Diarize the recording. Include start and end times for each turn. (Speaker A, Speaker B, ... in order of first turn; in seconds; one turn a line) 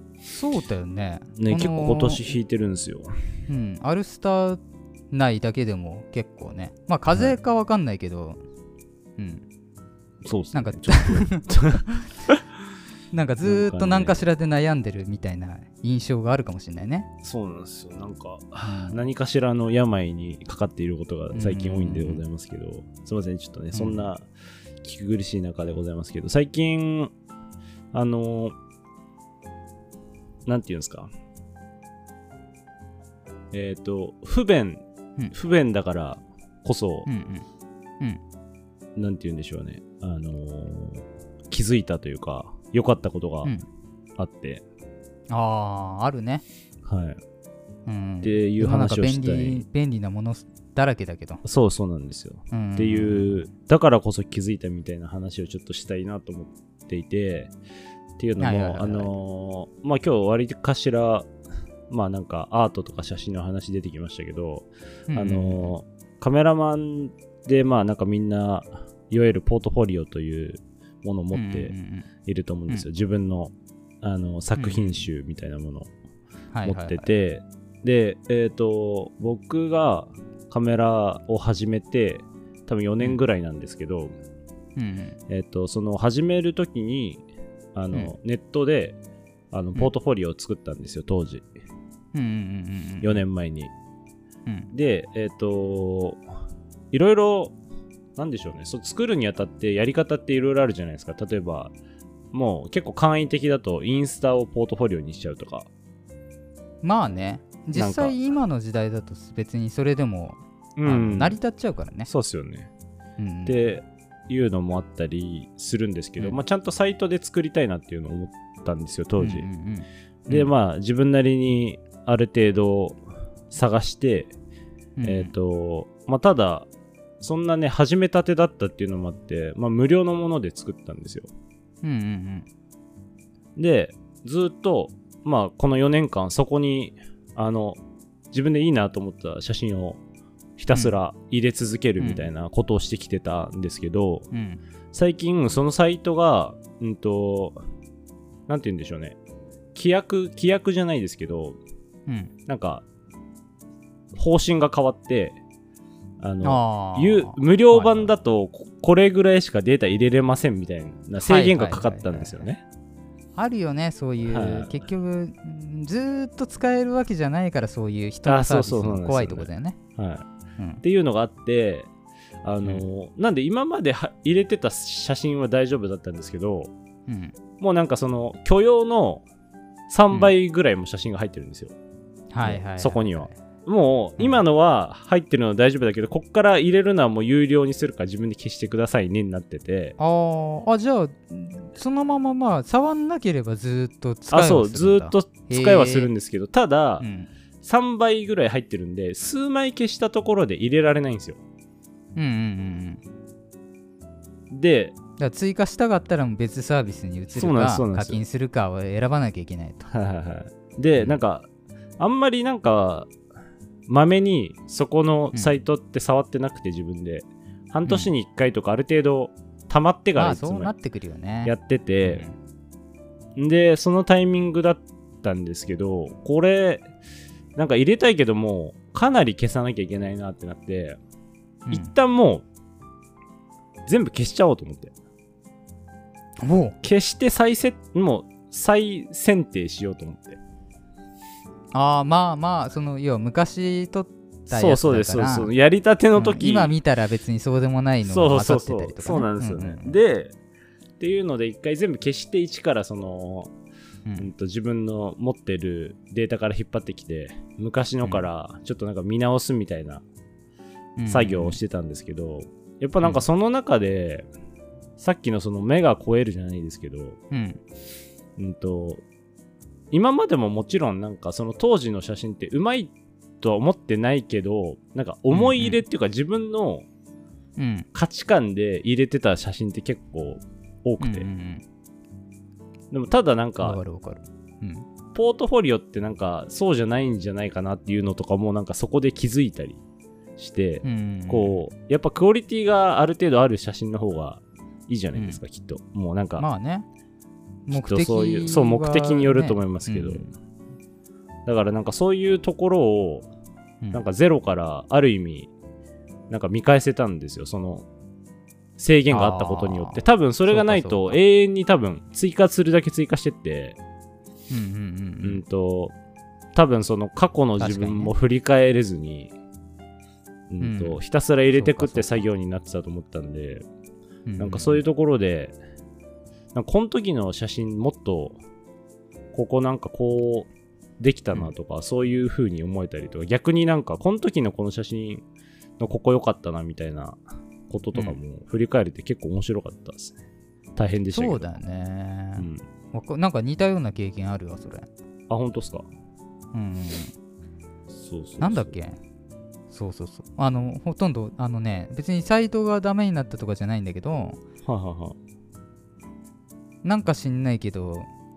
Speaker A: 0.2-2.3
Speaker B: 1.4-3.1
Speaker A: 3.5-8.4
Speaker A: 9.2-9.4
Speaker B: 10.2-12.4
Speaker A: 10.5-12.0
Speaker A: 13.1-17.1
Speaker B: 13.4-14.2
Speaker B: 17.2-24.3
Speaker A: 18.6-19.0
Speaker A: 21.3-22.2
Speaker A: 23.7-24.1
Speaker B: 24.8-27.1
Speaker B: 27.9-28.6
Speaker B: 30.4-31.1
Speaker B: 33.5-37.1
Speaker A: 37.0-37.5
Speaker B: 39.0-43.5
Speaker B: 44.2-44.6
Speaker A: 45.3-46.4
Speaker B: 46.8-47.2
Speaker A: 47.9-51.4
Speaker B: 48.2-49.6
Speaker B: 51.4-57.5
Speaker A: 52.5-53.5
Speaker B: 58.2-61.3
Speaker A: 58.4-59.1
Speaker B: 61.9-71.7
Speaker A: 65.1-65.7
Speaker A: 71.3-72.1
Speaker B: 72.2-75.9
Speaker A: 74.6-75.0
Speaker A: 76.5-77.1
Speaker B: 76.6-84.1
Speaker A: 84.8-85.2
Speaker B: 85.3-87.2
Speaker B: 87.7-89.0
Speaker B: 89.5-91.5
Speaker A: 92.1-93.2
Speaker B: 93.0-93.7
Speaker B: 94.7-96.2
Speaker B: 96.9-97.5
Speaker B: 98.2-101.7
Speaker B: 102.3-105.7
Speaker A: 106.8-112.1
Speaker B: 107.7-108.2
Speaker B: 110.8-111.4
Speaker B: 112.0-112.7
Speaker A: 113.2-113.6
Speaker B: 113.5-119.5
Speaker A: 119.2-120.5
Speaker B: 120.3-124.3
Speaker A: 125.0-125.3
Speaker B: 125.0-126.7
Speaker B: 127.2-131.3
Speaker A: 131.8-132.5
Speaker B: 133.6-137.8
Speaker B: 138.3-140.0
Speaker B: 140.6-144.3
Speaker A: 142.0-142.3
Speaker A: 144.3-144.6
Speaker B: 144.9-147.6
Speaker B: 148.5-149.2
Speaker B: 149.7-151.6
Speaker A: 152.1-152.3
Speaker B: 152.5-152.8
Speaker B: 154.1-155.4
Speaker B: 156.2-162.6
Speaker A: 156.4-158.1
Speaker A: 161.2-162.5
Speaker A: 163.3-169.8
Speaker B: 164.3-164.8
Speaker B: 168.2-170.2
Speaker A: 170.6-170.8
Speaker B: 170.8-171.9
Speaker B: 172.4-176.7
Speaker A: 177.1-177.3
Speaker B: 177.6-179.2
Speaker B: 179.9-181.7
Speaker A: 182.3-183.3
Speaker B: 182.4-189.9
Speaker A: 190.0-196.1
Speaker B: 194.3-197.1
Speaker A: 197.0-197.3
Speaker B: 197.6-201.4
Speaker A: 202.2-203.0
Speaker B: 204.5-204.9
Speaker A: 205.2-209.9
Speaker B: 207.3-208.2
Speaker B: 209.9-213.1
Speaker B: 213.9-220.7
Speaker A: 215.3-215.6
Speaker A: 217.8-218.1
Speaker A: 220.2-222.3
Speaker B: 221.4-222.2
Speaker B: 223.3-226.9
Speaker B: 227.6-231.0
Speaker A: 231.7-231.9
Speaker B: 231.7-232.4
Speaker B: 233.8-234.9
Speaker A: 236.4-236.8
Speaker B: 236.8-240.4
Speaker A: 241.7-245.5
Speaker B: 244.5-246.7
Speaker A: 246.1-250.0
Speaker B: 248.0-250.3
Speaker B: 251.0-253.5
Speaker A: 254.1-254.3
Speaker B: 254.2-260.0
Speaker A: 261.0-261.6
Speaker B: 261.1-264.3
Speaker B: 265.0-267.2
Speaker A: 267.3-267.6
Speaker B: 268.4-269.0
Speaker B: 269.9-276.9
Speaker A: 275.3-275.8
Speaker A: 277.6-277.9
Speaker B: 277.9-281.3
Speaker A: 281.0-281.6
Speaker B: 282.9-283.8
Speaker A: 283.6-284.9
Speaker B: 285.1-289.8
Speaker B: 290.4-296.4
Speaker A: 290.8-291.6
Speaker A: 295.1-295.4
Speaker A: 296.4-296.9
Speaker A: 297.7-300.3
Speaker B: 297.7-300.3
Speaker B: 301.4-303.3
Speaker B: 303.9-305.5
Speaker B: 306.3-307.9
Speaker B: 308.8-313.8
Speaker A: 309.1-311.2
Speaker A: 314.5-315.4
Speaker B: 315.2-315.9
Speaker B: 316.5-319.3
Speaker A: 317.6-318.1
Speaker B: 320.5-323.6
Speaker A: 320.6-321.0
Speaker A: 321.5-322.3
Speaker A: 324.2-324.8
Speaker B: 324.4-325.6
Speaker B: 326.5-328.4
Speaker B: 329.3-335.2
Speaker B: 335.8-340.2
Speaker B: 340.8-341.5
Speaker A: 341.1-344.9
Speaker B: 342.4-342.6
Speaker B: 345.3-345.9
Speaker A: 346.5-347.1
Speaker B: 347.9-348.8
Speaker A: 348.4-349.0
Speaker A: 349.7-354.4
Speaker B: 354.6-355.2
Speaker A: 356.8-358.1